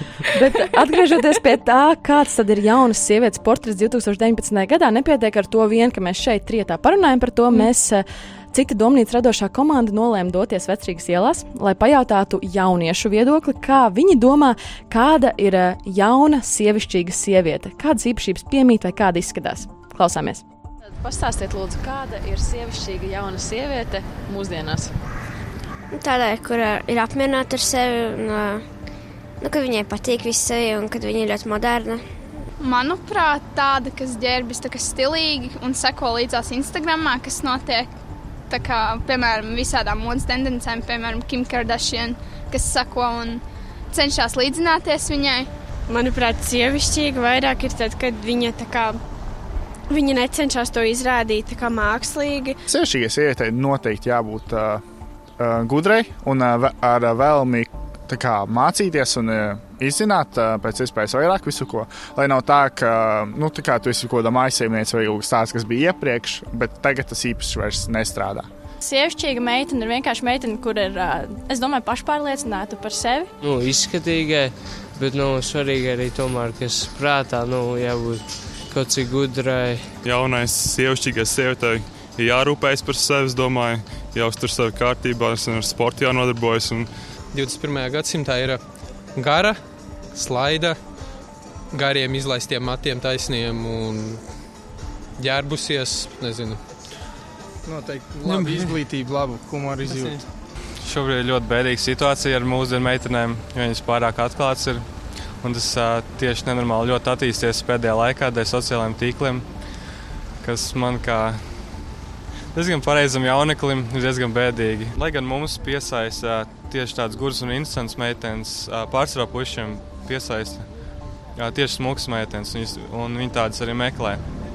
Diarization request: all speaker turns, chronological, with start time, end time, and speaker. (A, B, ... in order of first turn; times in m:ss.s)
0:00.3-0:24.9 A
0:25.9-0:28.6 B
0:29.4-0:32.0 B
0:32.6-0:37.9 C
0:38.5-0:45.5 C
0:45.9-0:49.0 D
0:49.9-0:52.6 D
0:52.7-0:54.8 E
0:55.4-1:08.5 E
1:08.8-1:13.3 F
1:13.4-1:20.0 G
1:20.0-1:26.9 H
1:27.3-1:30.9 I
1:31.7-1:34.6 I
1:35.2-1:36.6 I
1:37.6-1:40.3 J
1:40.8-1:49.7 H
1:50.4-1:52.0 H
1:52.5-2:04.2 H